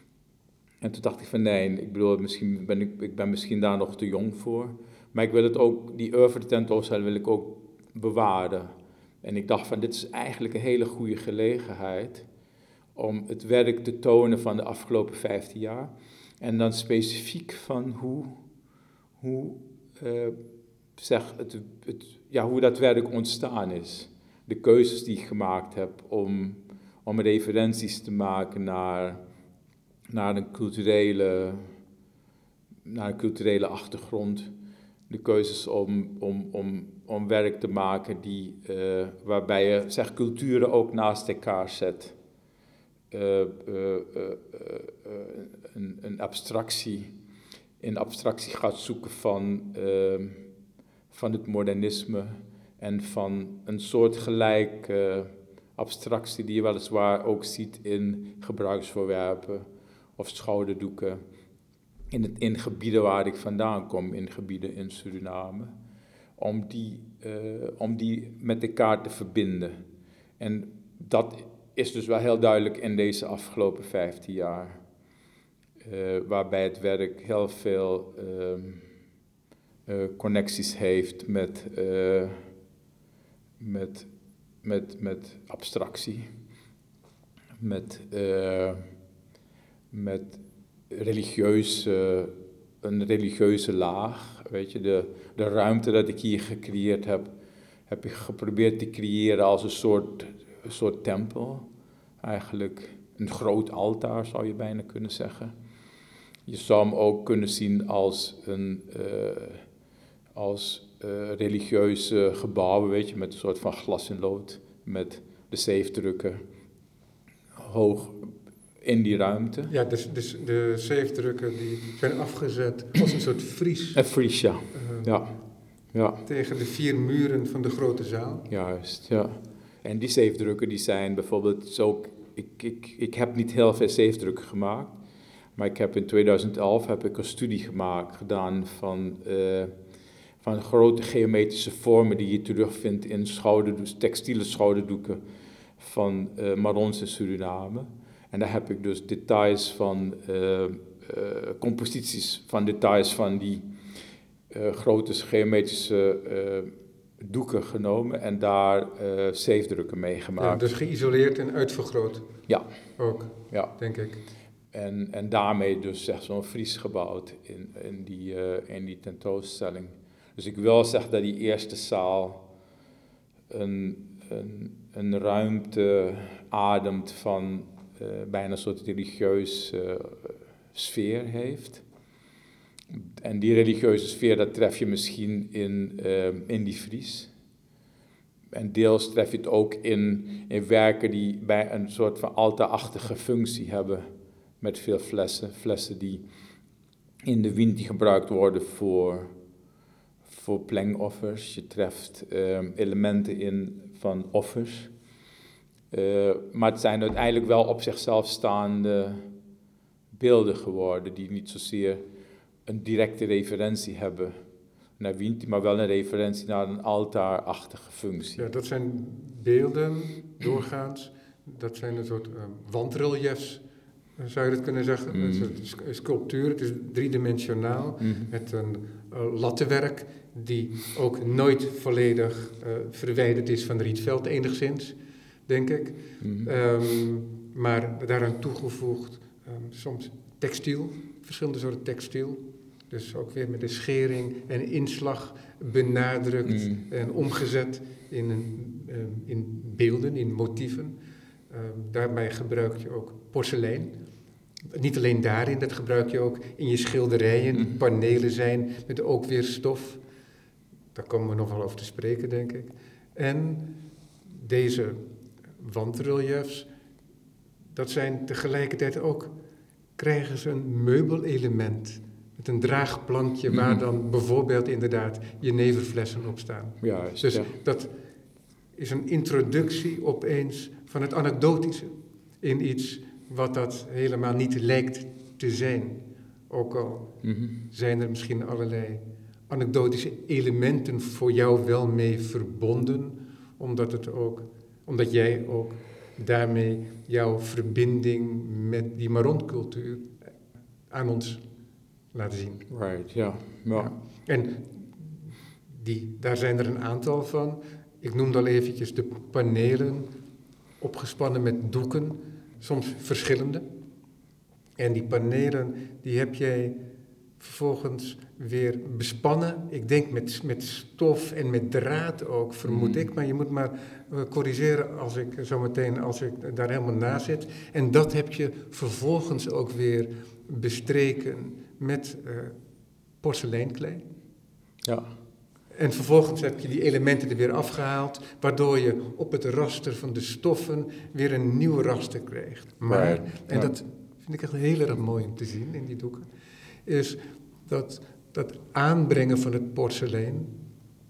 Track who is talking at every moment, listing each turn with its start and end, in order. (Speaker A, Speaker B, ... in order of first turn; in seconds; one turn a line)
Speaker A: 0.8-12.3
Speaker A: 12.9-18.4
Speaker A: 19.2-20.4
Speaker A: 21.0-29.2
Speaker A: 30.1-31.7
Speaker A: 32.9-34.5
Speaker A: 35.1-42.1
Speaker A: 43.1-47.1
Speaker A: 47.8-50.5
Speaker A: 51.1-61.2
Speaker A: 62.1-65.7
Speaker A: 66.4-69.8
Speaker A: 70.4-74.8
Speaker A: 75.8-78.8
Speaker A: 79.9-82.5
Speaker A: 83.6-84.1
Speaker A: 84.6-86.3
Speaker A: 87.6-88.8
Speaker A: 89.9-97.3
Speaker A: 97.9-101.7
Speaker A: 102.2-105.5
Speaker A: 106.5-109.6
Speaker A: 110.3-116.4
Speaker A: 117.6-119.7
Speaker B: 119.7-124.0
Speaker A: 124.0-125.4
Speaker B: 124.7-125.1
Speaker A: 125.9-126.2
Speaker B: 126.2-128.5
Speaker A: 128.5-135.0
Speaker A: 135.6-139.7
Speaker A: 140.4-145.2
Speaker A: 145.8-153.7
Speaker A: 154.5-160.7
Speaker B: 160.4-162.3
Speaker B: 163.0-164.2
Speaker A: 163.3-163.8
Speaker A: 164.7-172.5
Speaker A: 173.5-181.8
Speaker A: 182.9-187.3
Speaker A: 188.5-194.1
Speaker A: 194.6-196.2
Speaker A: 197.2-199.3
Speaker A: 200.3-204.9
Speaker A: 205.9-209.3
Speaker A: 210.1-212.0
Speaker A: 212.7-214.4
Speaker A: 215.0-218.5
Speaker B: 218.4-223.6
Speaker B: 224.2-250.9
Speaker A: 225.1-225.5
Speaker A: 228.0-228.3
Speaker A: 236.2-236.5
Speaker A: 246.4-246.8
Speaker B: 251.5-254.0
Speaker B: 254.7-260.0
Speaker B: 260.9-265.0
Speaker B: 265.6-266.7
Speaker B: 267.8-269.3
Speaker B: 270.0-277.9
Speaker A: 273.5-273.8
Speaker A: 276.8-277.5
Speaker B: 278.7-300.2
Speaker A: 287.2-287.6
Speaker B: 300.9-301.4
Speaker B: 302.1-302.7
Speaker A: 302.7-303.9
Speaker B: 303.7-310.1
Speaker B: 310.8-313.6
Speaker B: 314.8-316.8
Speaker B: 317.4-332.6
Speaker A: 322.6-323.1
Speaker B: 333.2-334.0
Speaker A: 334.8-335.1
Speaker B: 335.7-346.3
Speaker A: 342.8-343.7
Speaker B: 346.9-350.5